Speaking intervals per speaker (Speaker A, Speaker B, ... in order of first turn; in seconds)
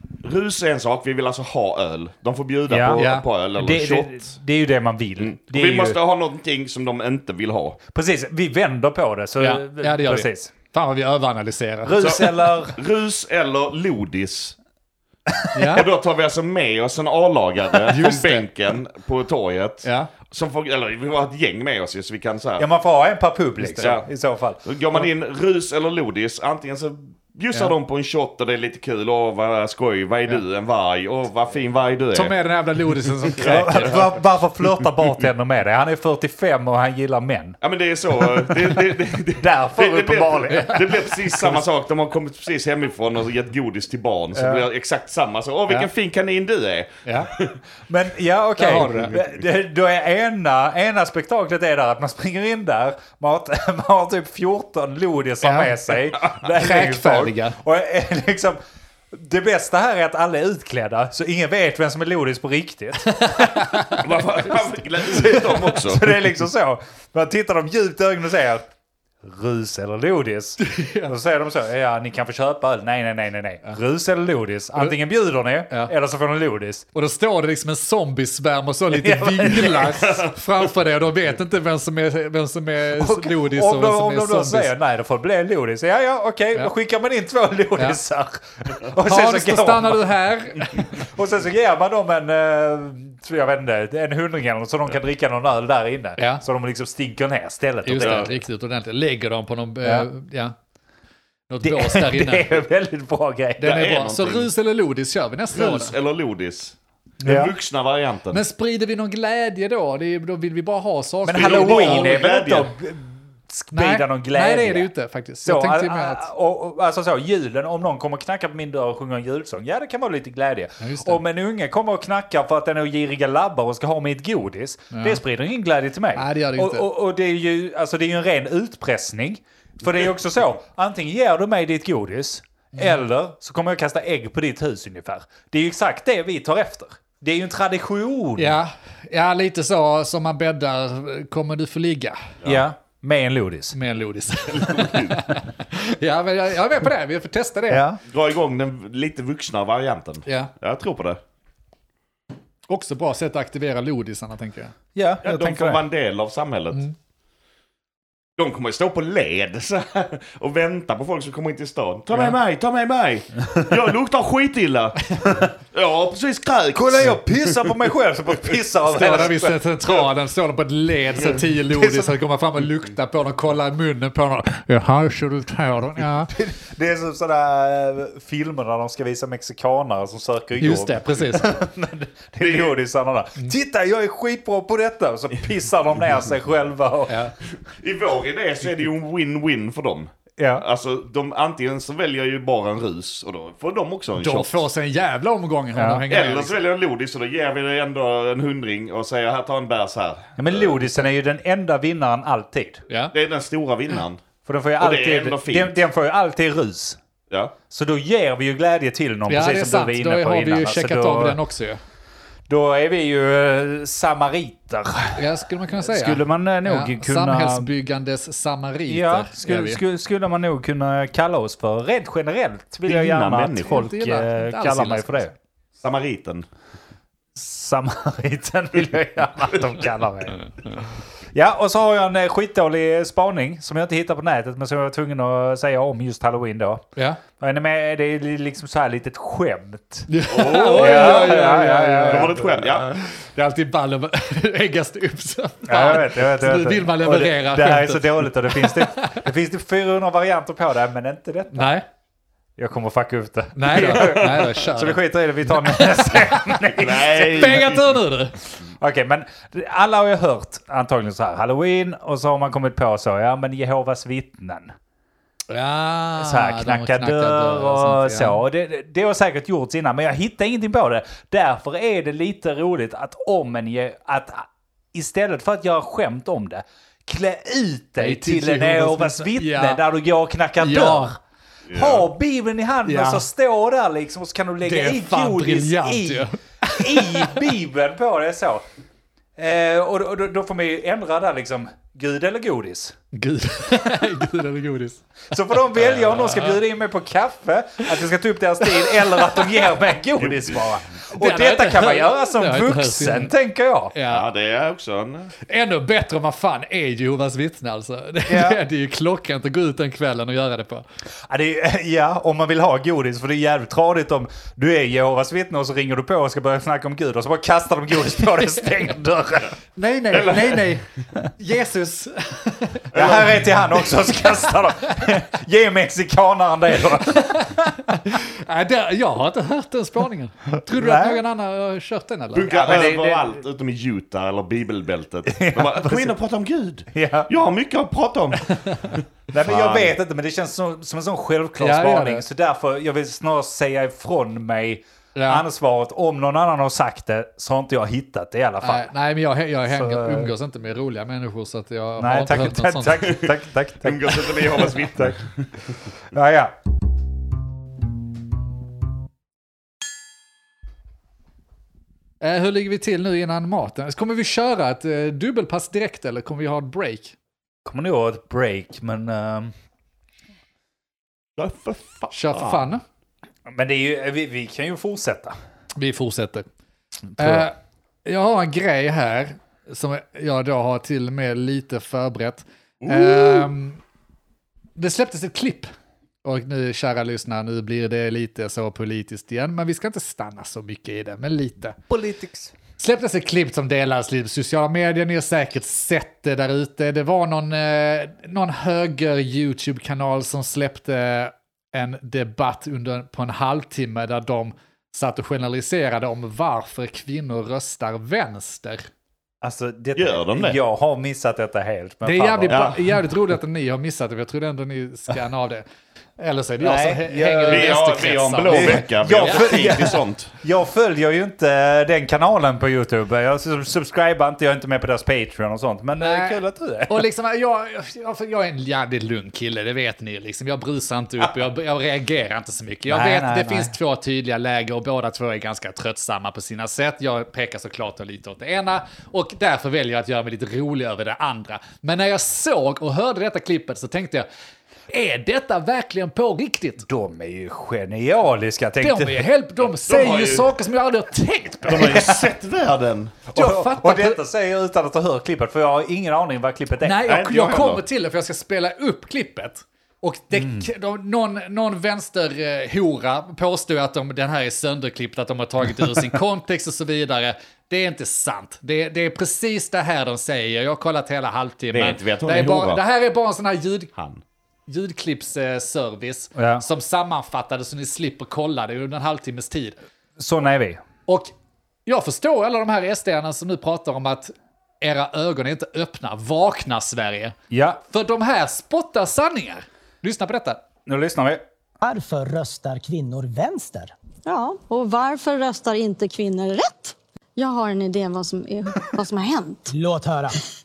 Speaker A: 0.2-4.3, 5.2-7.8, 12.0-14.6, 15.7-22.7, 23.8-24.1, 24.6-32.4, 33.3-34.0, 37.6-47.6, 64.0-66.2, 98.0-98.3, 103.6-104.5, 105.5-108.4, 111.3-112.7, 144.5-145.2, 148.1-151.2, 155.2-156.8, 158.4-167.7, 182.4-182.8, 187.7-194.6, 196.1-200.8, 203.1-204.2, 204.8-205.8, 222.9-223.8, 225.8-226.5, 240.3-241.5, 242.0-242.9, 254.1-254.5, 256.7-258.0, 281.7-282.1, 300.2-300.6, 304.1-305.3, 320.1-320.7, 322.9-323.4, 332.3-339.9, 353.8-355.5, 371.4-372.7, 382.8-383.5, 409.9-410.6, 412.5-412.8, 417.5-420.3, 449.8-450.5, 451.7-453.2, 457.1-457.8, 471.7-472.8, 474.0-474.2
Speaker B: 2.7-6.0, 7.9-10.5, 11.8-12.8, 15.4-15.8, 22.6-24.6, 33.4-37.6, 38.2-38.8, 39.4-41.5, 44.4-44.6, 47.9-58.6, 59.1-64.0, 65.2-68.7, 69.2-76.8, 78.9-80.0, 83.0-98.4, 101.6-103.7, 107.2-107.5, 111.2-114.9, 115.5-138.6, 142.5-143.8, 147.7-148.0, 154.9-155.8, 166.8-169.6, 171.7-172.1, 176.3-187.2, 190.4-190.6, 195.8-196.0, 200.4-202.8, 204.4-207.0, 207.7-211.4, 212.5-215.2, 215.8-217.7, 218.9-225.3, 227.4-230.4, 231.3-236.8, 237.4-240.1, 240.8-242.4, 245.7-251.8, 252.6-257.7, 258.6-264.8, 266.2-281.2, 281.7-288.6, 289.4-293.0, 295.3-303.9, 308.3-308.6, 311.3-319.5, 322.9-327.8, 330.7-331.2, 332.5-333.2, 335.3-336.1, 336.9-337.3, 339.3-348.9, 349.7-350.3, 352.0-355.2, 356.1-356.5, 367.7-369.5, 373.5-375.4, 377.2-377.5, 391.9-392.5, 409.4-412.8, 416.6-427.1, 432.9-433.7, 446.8-449.2, 451.8-452.2, 453.3-457.0, 460.3-460.7, 476.4-476.6, 480.2-480.8, 487.5-487.8, 490.9-491.4
Speaker C: 3.0-3.2, 9.4-12.2, 15.6-15.9, 17.9-18.5, 19.8-20.1, 23.6-24.0, 32.1-34.2, 40.5-41.1, 47.0-47.3, 48.6-49.2, 55.4-57.6, 63.2-64.0, 70.6-71.1, 77.0-84.7, 89.0-90.9, 96.2-96.4, 97.9-100.5, 101.5-102.6, 103.6-105.9, 108.3-112.3, 113.7-116.3, 120.8-121.2, 124.9-125.2, 126.2-126.9, 138.4-142.2, 143.7-147.8, 150.3-150.5, 152.7-154.8, 168.9-176.3, 180.6-181.5, 187.1-187.3, 194.2-196.5, 202.9-203.1, 209.3-211.8, 215.2-219.8, 223.7-225.3, 237.0-237.2, 240.1-249.2, 251.5-251.8, 253.6-256.5, 257.3-258.3, 265.5-268.4, 278.0-279.8, 280.6-281.1, 282.9-283.3, 284.6-287.4, 293.1-295.2, 295.8-296.6, 298.9-299.8, 301.2-303.3, 303.9-304.2, 305.5-310.8, 319.8-320.9, 321.4-322.9, 327.1-332.5, 341.6-342.2, 345.1-345.4, 348.6-353.1, 362.2-367.1, 372.1-372.8, 375.8-376.5, 377.2-377.5, 378.1-383.8, 384.8-385.7, 386.2-391.8, 392.8-408.9, 412.0-415.6, 416.2-419.8, 426.0-444.3, 444.9-446.9, 448.8-452.1, 453.4-454.2, 456.8-473.9, 474.7-479.8, 481.9-487.4, 487.9-490.6
Speaker D: 491.8-493.9, 499.7-500.4
Speaker E: 494.2-499.7